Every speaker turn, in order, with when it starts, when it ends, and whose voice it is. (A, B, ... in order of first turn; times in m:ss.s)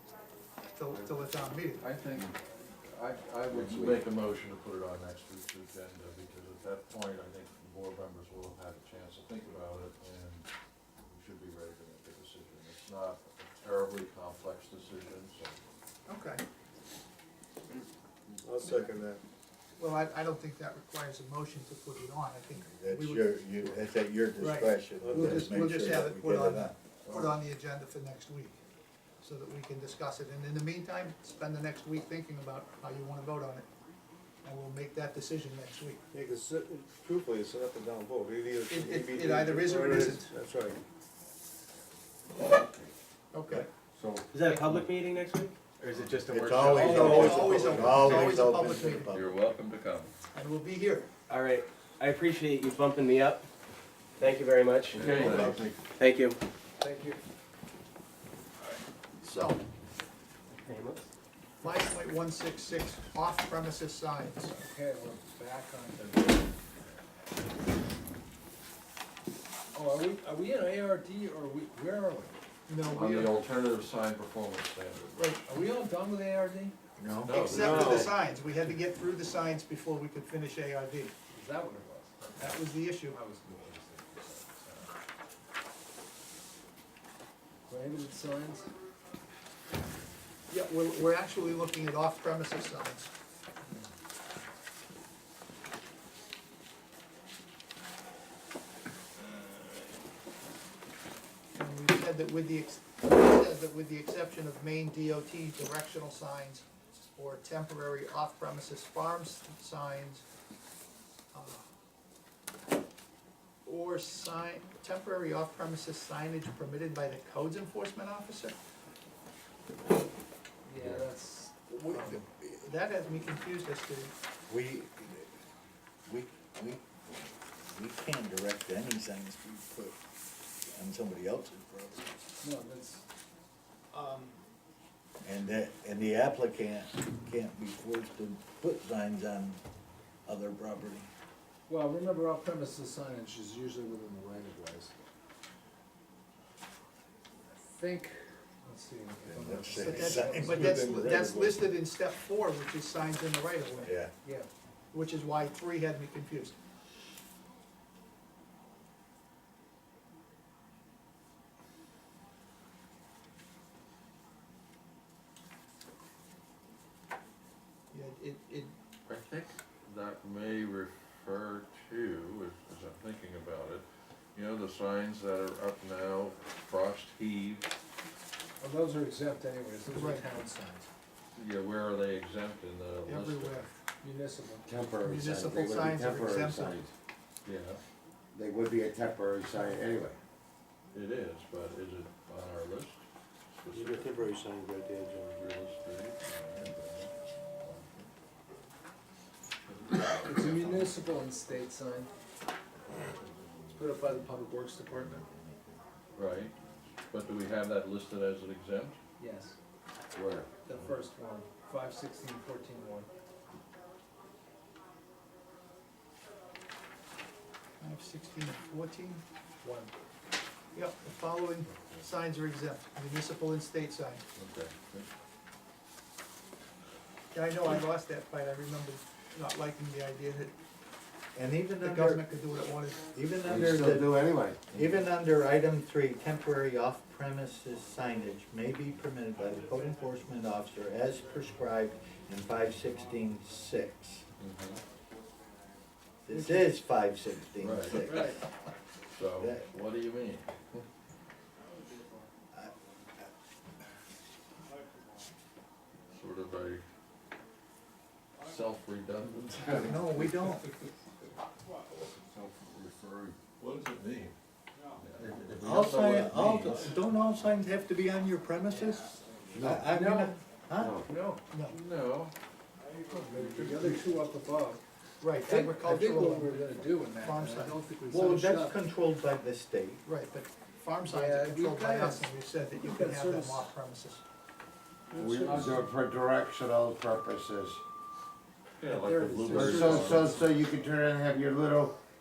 0:00.8-0:01.8 A
0:01.8-0:10.5 B
0:03.5-0:04.0 C
0:11.0-0:15.6 B
0:16.1-0:16.4 A
0:18.4-0:19.2 D
0:18.6-0:18.9 A
0:19.8-0:23.7 A
0:22.6-0:26.8 C
0:24.4-0:28.6 A
0:25.0-0:25.6 D
0:29.2-0:33.7 A
0:34.4-0:36.0 A
0:36.1-0:40.8 D
0:38.7-0:40.3 A
0:43.3-0:43.7 A
0:44.3-0:48.0 E
0:44.5-0:44.9 B
0:45.9-0:48.3 B
0:46.3-0:49.4 C
0:46.8-0:49.2 A
0:47.5-0:47.8 D
0:49.1-0:50.1 B
0:50.3-0:51.1 A
0:51.3-0:53.4 E
0:54.2-0:56.4 E
0:54.9-0:55.8 B
0:55.0-0:55.5 C
0:56.8-0:57.2 F
0:59.2-0:59.6 A
1:00.6-1:01.1 E
1:01.6-1:04.7 A
1:04.5-1:06.5 F
1:09.7-1:12.3 F
1:12.7-1:13.4 A
1:12.9-1:15.4 B
1:15.2-1:15.4 A
1:15.5-1:16.8 F
1:17.0-1:17.9 C
1:17.2-1:18.1 B
1:17.4-1:21.1 A
1:17.5-1:18.1 E
1:21.3-1:24.9 F
1:22.4-1:23.2 A
1:27.7-1:28.7 F
1:30.5-1:33.1 A
1:41.6-1:50.2 A
1:51.3-1:51.7 A
1:53.6-1:58.6 A
2:00.6-2:02.3 F
2:01.9-2:04.1 A
2:04.5-2:05.3 C
2:06.1-2:10.0 C
2:10.7-2:12.1 C
2:12.4-2:13.1 F
2:13.9-2:14.4 A
2:15.2-2:19.6 C
2:20.3-2:21.1 C
2:21.7-2:25.1 F
2:27.5-2:30.5 F
2:29.3-2:30.8 C
2:29.8-2:33.9 A
2:30.2-2:31.6 D
2:33.8-2:34.1 C
2:34.2-2:34.5 F
2:34.9-2:36.6 A
2:47.9-2:48.7 A
2:49.1-2:57.7 B
2:58.6-3:00.9 F
2:59.9-3:00.3 A
3:01.4-3:03.7 B
3:03.1-3:03.7 A
3:04.0-3:04.7 F
3:04.6-3:06.9 G
3:05.0-3:06.8 A
3:07.4-3:07.8 B
3:08.3-3:10.2 G
3:10.9-3:13.0 B
3:13.6-3:14.1 B
3:13.7-3:15.5 D
3:15.4-3:18.1 B
3:19.7-3:20.9 B
3:20.2-3:22.1 F
3:23.8-3:25.2 F
3:26.2-3:26.6 B
3:27.1-3:29.0 B
3:29.2-3:29.6 F
3:30.1-3:30.9 B
3:30.7-3:33.1 F
3:37.8-3:39.2 A
3:39.6-3:39.9 F
3:40.7-3:44.2 A
3:44.4-3:45.1 B
3:47.3-3:50.5 A
3:51.4-3:52.2 C
3:51.8-3:53.1 A
3:53.1-3:54.1 C
3:53.4-3:54.6 G
3:54.7-4:04.2 C
4:04.4-4:04.8 B
4:06.3-4:08.4 C
4:06.3-4:06.7 F
4:07.6-4:08.3 B
4:08.1-4:08.4 F
4:09.1-4:10.8 B
4:09.4-4:09.6 C
4:16.1-4:16.8 B
4:18.4-4:20.4 B
4:19.8-4:20.7 C
4:23.6-4:24.4 B
4:25.0-4:27.1 B
4:25.6-4:31.0 C
4:29.5-4:29.8 B
4:29.6-4:29.9 G
4:29.8-4:30.4 F
4:30.8-4:31.0 G
4:31.0-4:31.5 F
4:31.5-4:31.8 A
4:31.6-4:32.3 B
4:33.1-4:34.8 F
4:33.1-4:34.0 B
4:35.2-4:37.8 A
4:35.4-4:38.8 F
4:38.1-4:40.0 C
4:40.0-4:44.2 A
4:41.0-4:43.7 F
4:45.1-4:45.9 F
4:45.2-4:47.8 G
4:48.8-4:50.4 B
4:48.8-4:50.6 F
4:49.5-4:52.0 G